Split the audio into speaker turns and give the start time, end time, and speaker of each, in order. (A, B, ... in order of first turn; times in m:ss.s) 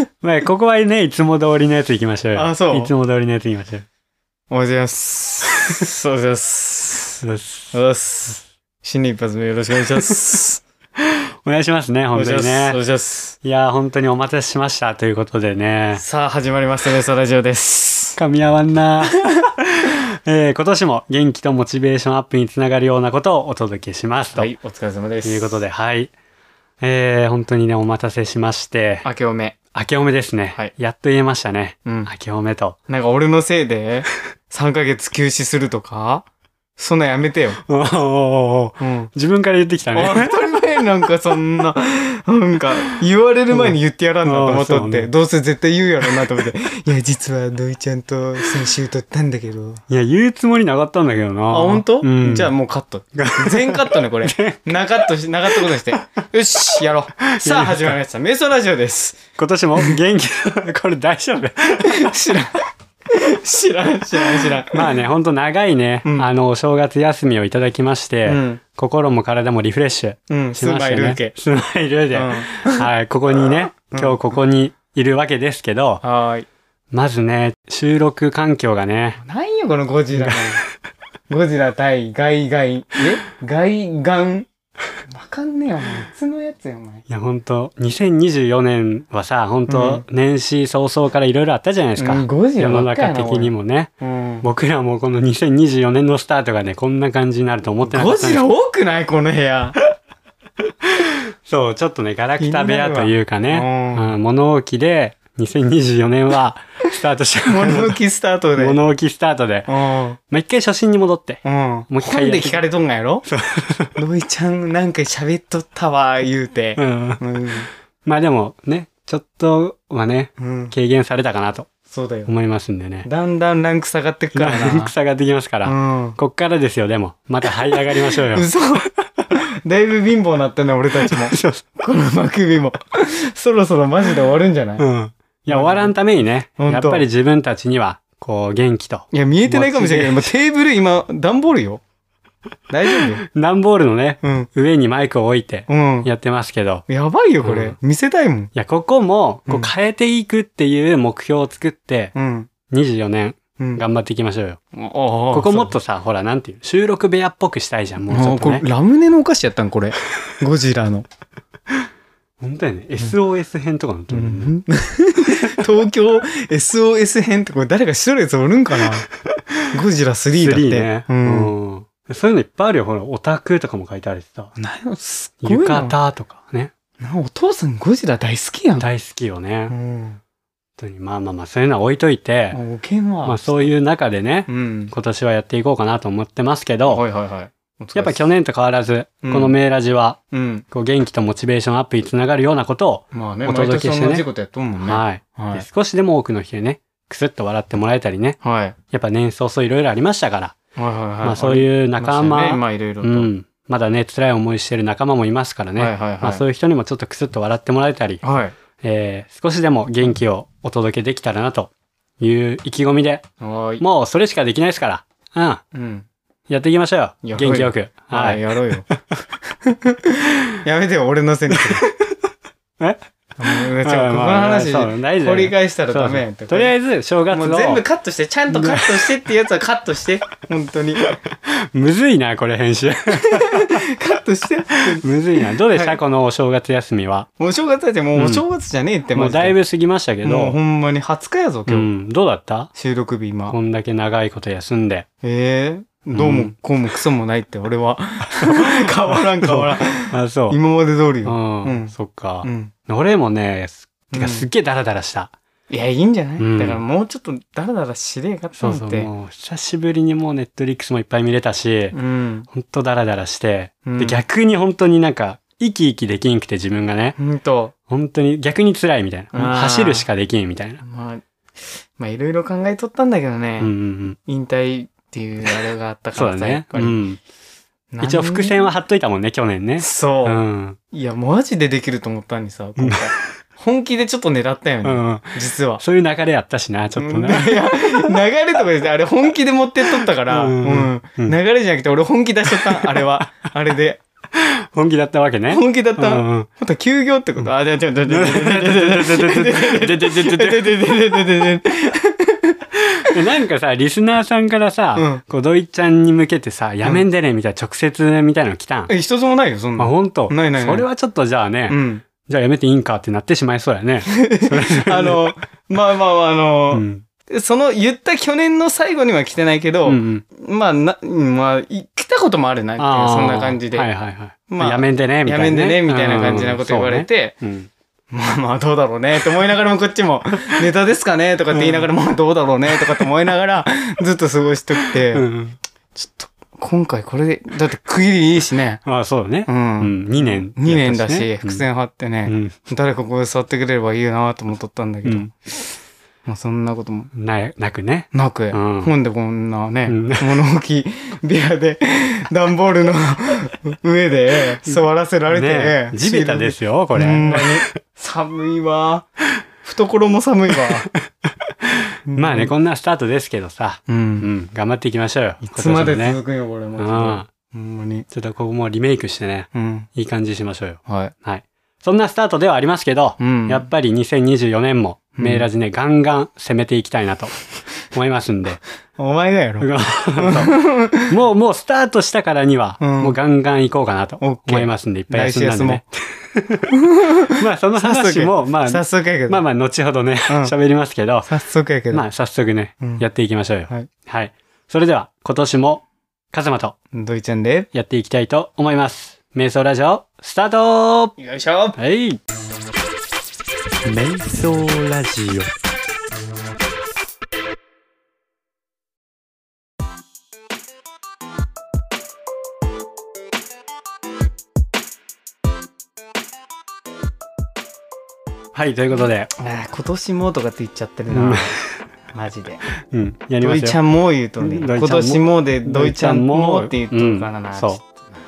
0:00.2-0:03.9 A
0:02.4-0:02.9 B
0:04.5-0:10.6 B
0:07.2-0:07.7 A
0:11.0-0:12.8 A
0:12.1-0:13.4 B
0:13.4-0:16.0 A
0:16.0-0:18.2 B
0:18.2-0:24.5 A
0:24.4-0:25.6 B
0:25.2-0:26.1 A
0:26.8-0:29.1 A
0:29.0-0:29.6 B
0:29.7-0:32.8 A
0:32.9-0:37.6 B
0:37.7-0:40.6 A
0:38.8-0:39.1 B
0:39.9-0:49.8 B
0:43.5-0:45.1 A
0:49.9-0:52.5 A
0:51.5-0:59.3 B
0:53.2-0:54.8 A
0:55.5-0:55.9 A
0:57.2-0:58.0 A
0:59.4-1:02.2 A
1:01.8-1:05.0 B
1:04.7-1:16.0 A
1:06.0-1:06.3 B
1:08.3-1:08.6 B
1:10.3-1:11.3 B
1:12.1-1:12.9 B
1:13.5-1:14.2 B
1:16.0-1:16.5 B
1:16.9-1:19.2 A
1:19.2-1:20.6 B
1:20.2-1:20.6 A
1:21.3-1:24.5 B
1:25.1-1:27.0 B
1:27.1-1:33.9 A
1:29.7-1:30.0 B
1:32.0-1:34.5 B
1:34.4-1:38.5 A
1:37.8-1:39.8 B
1:40.8-1:48.0 A
1:42.4-1:44.1 B
1:47.5-1:48.8 B
1:48.6-1:49.7 A
1:49.7-1:50.2 B
1:50.3-1:52.6 A
1:51.4-1:53.3 B
1:53.3-1:54.0 A
1:54.0-1:57.7 B
1:56.8-1:57.2 A
1:58.0-2:01.7 A
2:00.4-2:00.7 B
2:01.9-2:02.3 B
2:02.3-2:03.1 A
2:03.0-2:04.9 B
2:04.4-2:08.5 A
2:05.6-2:06.2 B
2:07.7-2:14.8 B
2:11.1-2:11.6 A
2:14.8-2:20.3 A
2:15.5-2:15.9 B
2:16.6-2:17.1 B
2:19.1-2:21.8 B
2:22.7-2:23.2 B
2:22.9-2:26.8 A
2:24.2-2:24.5 B
2:25.7-2:26.1 B
2:26.9-2:28.5 B
2:27.4-2:27.8 A
2:28.6-2:32.2 A
2:32.2-2:32.5 B
2:32.7-2:34.6 A
2:33.6-2:33.8 B
2:34.7-2:35.8 B
2:35.3-2:38.6 A
2:38.1-2:41.1 B
2:42.4-2:44.6 A
2:44.1-2:49.1 B
2:45.3-2:45.7 A
2:49.7-2:51.5 B
2:50.4-2:54.6 A
2:54.6-2:56.0 B
2:55.4-2:56.7 A
2:57.0-2:58.9 B
2:58.8-2:59.8 A
2:59.7-3:00.2 B
3:00.8-3:02.6 A
3:02.5-3:03.7 B
3:03.2-3:07.0 A
3:04.5-3:04.9 B
3:06.9-3:08.3 B
3:08.0-3:10.2 A
3:09.2-3:09.5 B
3:10.3-3:10.7 B
3:10.7-3:14.2 A
3:13.1-3:15.6 B
3:14.8-3:18.4 A
3:18.4-3:18.8 B
3:18.9-3:20.6 A
3:20.8-3:23.3 B
3:21.2-3:28.2 A
3:25.8-3:26.4 B
3:28.2-3:28.6 B
3:28.8-3:33.3 A
3:33.4-3:33.8 B
3:33.8-3:35.6 A
3:35.7-3:36.1 B
3:36.5-3:39.0 A
3:37.2-3:38.9 B
3:39.6-3:41.8 B
3:41.5-3:42.2 A
3:43.4-3:46.7 B
3:43.6-3:47.8 A
3:47.3-3:51.0 B
3:48.5-3:49.1 A
3:51.0-3:53.9 A
3:53.2-3:56.0 B
3:54.8-3:57.3 A
3:57.4-3:59.6 B
3:58.2-3:58.4 A
3:59.2-4:00.6 A
4:00.2-4:01.9 B
4:01.7-4:02.7 A
4:02.8-4:03.6 B
4:03.5-4:05.1 A
4:05.2-4:12.7 B
4:06.1-4:06.5 A
4:08.4-4:10.6 A
4:11.2-4:15.3 A
4:14.1-4:14.5 B
4:15.7-4:19.1 B
4:16.4-4:16.8 A
4:18.6-4:22.0 A
4:21.9-4:22.5 B
4:22.5-4:27.2 A
4:23.8-4:24.2 B
4:27.2-4:27.7 B
4:27.9-4:30.8 A
4:29.3-4:30.1 B
4:30.8-4:31.2 B
4:32.0-4:33.7 B
4:33.6-4:34.2 A
4:34.3-4:37.0 B
4:36.2-4:37.2 A
4:37.9-4:38.7 B
4:38.0-4:40.8 A
4:39.8-4:45.8 B
4:42.8-4:43.1 A
4:44.8-4:48.2 A
4:47.0-4:54.0 B
4:50.0-4:51.4 A
4:54.3-4:56.5 A
4:55.5-5:03.2 B
4:58.1-5:00.8 A
5:02.8-5:08.9 A
5:05.0-5:05.2 B
5:08.9-5:10.9 B
5:09.8-5:15.3 A
5:11.7-5:12.1 B
5:14.1-5:23.9 B
5:16.7-5:17.0 A
5:19.8-5:20.2 A
5:22.8-5:27.7 A
5:24.5-5:27.4 B
5:28.1-5:35.3 B
5:31.5-5:31.9 A
5:34.8-5:35.6 A
5:36.0-5:38.8 B
5:38.8-5:41.6 A
5:39.5-5:45.6 B
5:42.3-5:42.6 A
5:46.2-5:47.1 B
5:47.1-5:48.9 A
5:48.1-5:59.1 B
5:49.9-5:50.4 A
5:55.3-5:57.8 A
5:59.6-6:00.9 B
6:00.9-6:06.2 A
6:02.1-6:02.5 B
6:03.9-6:04.3 B
6:05.4-6:08.1 B
6:06.8-6:07.3 A
6:08.1-6:17.4 A
6:09.5-6:09.9 B
6:10.9-6:11.1 B
6:13.2-6:13.7 B
6:15.2-6:15.5 B
6:17.9-6:18.6 A
6:19.0-6:21.2 B
6:19.6-6:26.7 A
6:22.8-6:23.2 B
6:24.2-6:25.8 B
6:26.7-6:29.4 B
6:27.3-6:31.3 A
6:30.3-6:30.6 B
6:31.3-6:32.1 B
6:31.9-6:36.8 A
6:32.8-6:33.0 B
6:36.9-6:37.7 B
6:37.7-6:41.2 A
6:41.2-6:41.8 B
6:41.8-6:42.2 A
6:43.8-6:45.5 A
6:58.5-6:59.3 A
6:59.4-7:01.6 B
7:01.1-7:01.8 A
7:02.1-7:02.6 B
7:02.8-7:03.8 A
7:03.4-7:08.0 B
7:04.4-7:07.8 A